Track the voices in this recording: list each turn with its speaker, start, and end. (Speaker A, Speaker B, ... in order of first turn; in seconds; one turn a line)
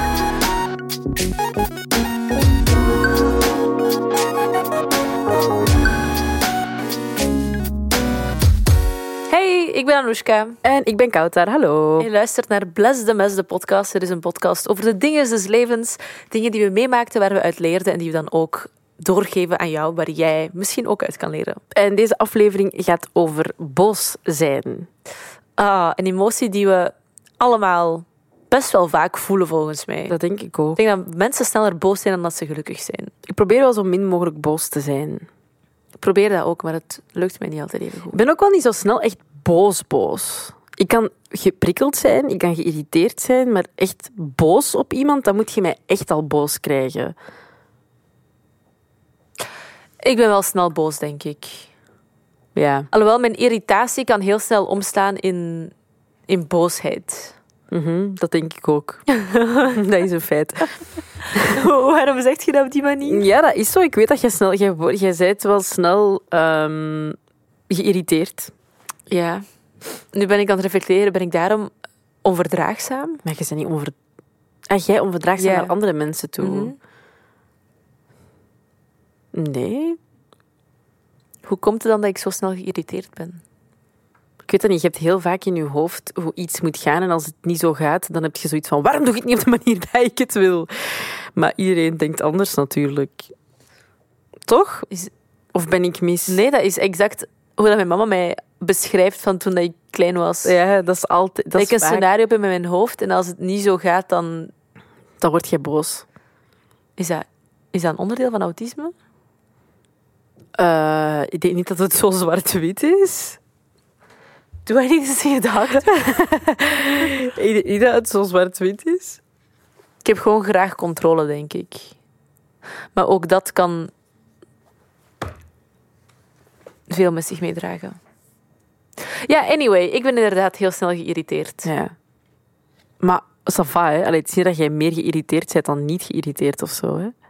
Speaker A: 9.3-10.6
Speaker B: 10.6-12.1
Speaker A: 12.0-21.6
Speaker B: 21.7-24.9
Speaker A: 25.6-30.1
Speaker B: 30.1-30.8
Speaker A: 30.8-33.1
Speaker B: 33.3-35.3
Speaker A: 36.0-38.2
Speaker B: 38.1-47.1
Speaker A: 50.0-51.7
Speaker B: 52.5-52.9
Speaker A: 52.9-55.7
Speaker A: 56.3-57.4
Speaker B: 57.7-59.1
Speaker A: 59.1-59.8
Speaker B: 59.7-60.7
Speaker A: 61.4-63.2
Speaker B: 63.0-67.2
Speaker B: 67.7-68.5
Speaker A: 69.1-69.5
Speaker A: 70.1-71.7
Speaker A: 72.2-73.2
Speaker B: 73.2-74.0
Speaker B: 74.7-76.7
Speaker A: 75.4-75.7
Speaker A: 76.4-76.8
Speaker B: 79.3-80.0
Speaker A: 81.4-83.4
Speaker B: 84.5-93.3
Speaker B: 94.5-94.9
Speaker B: 95.5-96.4
Speaker A: 96.3-100.5
Speaker B: 100.4-102.0
Speaker A: 101.5-104.5
Speaker B: 105.2-106.0
Speaker A: 107.0-108.9
Speaker B: 110.5-113.4
Speaker A: 114.7-116.0
Speaker B: 115.9-119.2
Speaker A: 120.0-121.9
Speaker A: 122.9-123.9
Speaker A: 126.9-128.0
Speaker A: 129.0-131.7
Speaker B: 131.6-131.9
Speaker B: 133.0-137.1